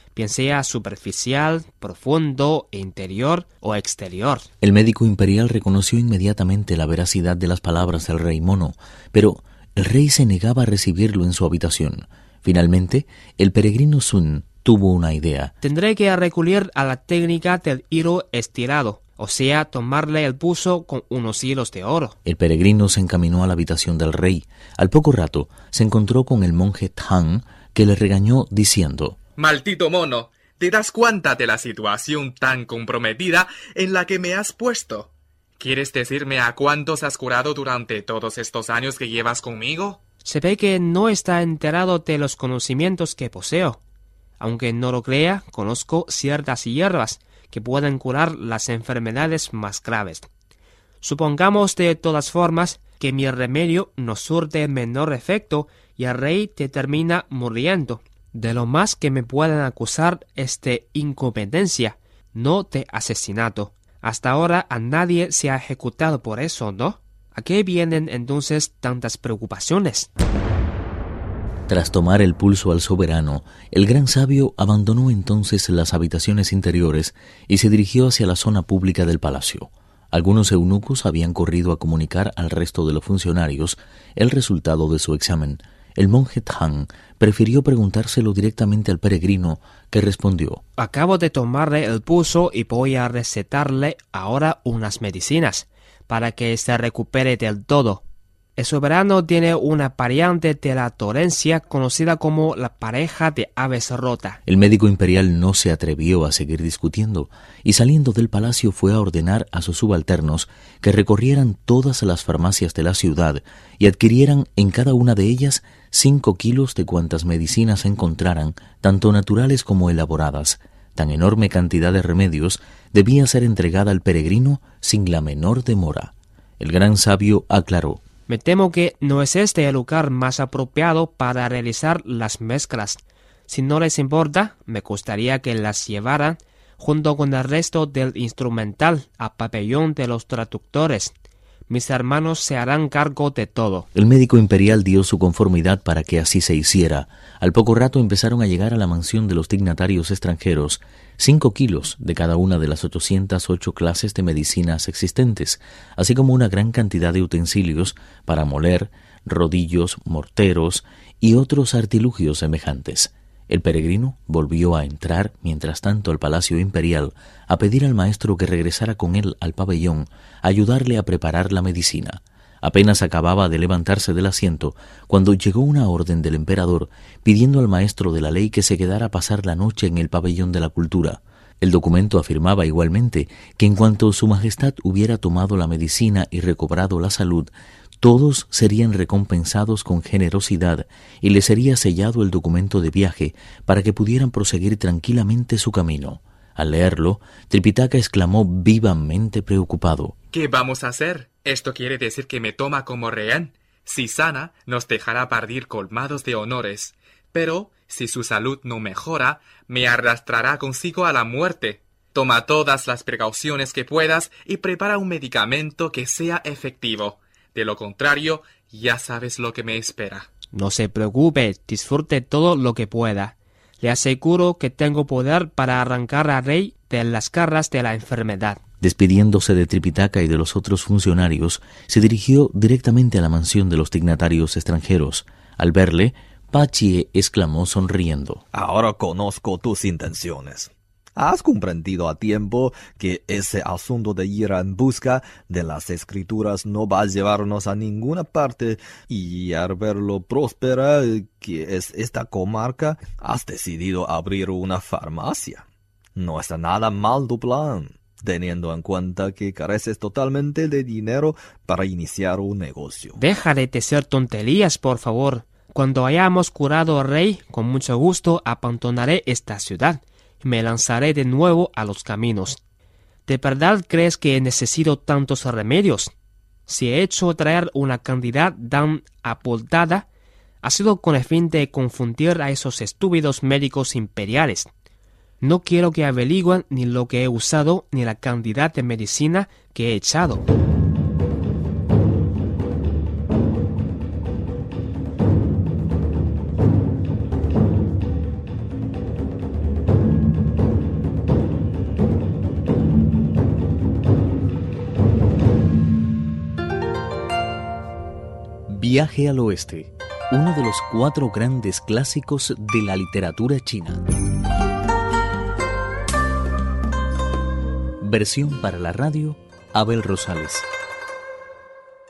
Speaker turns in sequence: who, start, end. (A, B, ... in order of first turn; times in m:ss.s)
0:00.1-0:04.5 A
0:04.6-0:15.5 B
0:15.6-0:22.2 A
0:22.2-0:29.2 B
0:29.4-0:40.0 C
0:40.2-0:43.8 A
0:44.4-0:50.3 A
0:51.0-1:10.1 A
1:11.7-1:30.6 B
1:30.8-1:38.0 A
1:38.6-1:44.4 A
1:44.5-2:08.0 B
2:08.3-2:21.1 A
2:21.7-2:23.9 A
2:23.9-3:20.1 B
3:20.3-3:40.3 C
3:40.5-3:48.6 A
3:48.8-3:58.4 B
3:58.5-4:15.6 D
4:16.2-4:23.2 D
4:23.2-4:32.6 A
4:33.2-4:36.1 A
4:36.7-4:40.1 A
4:40.6-4:44.7 A
4:45.4-4:50.4 A
5:08.7-5:14.1 B
5:18.0-5:20.7 B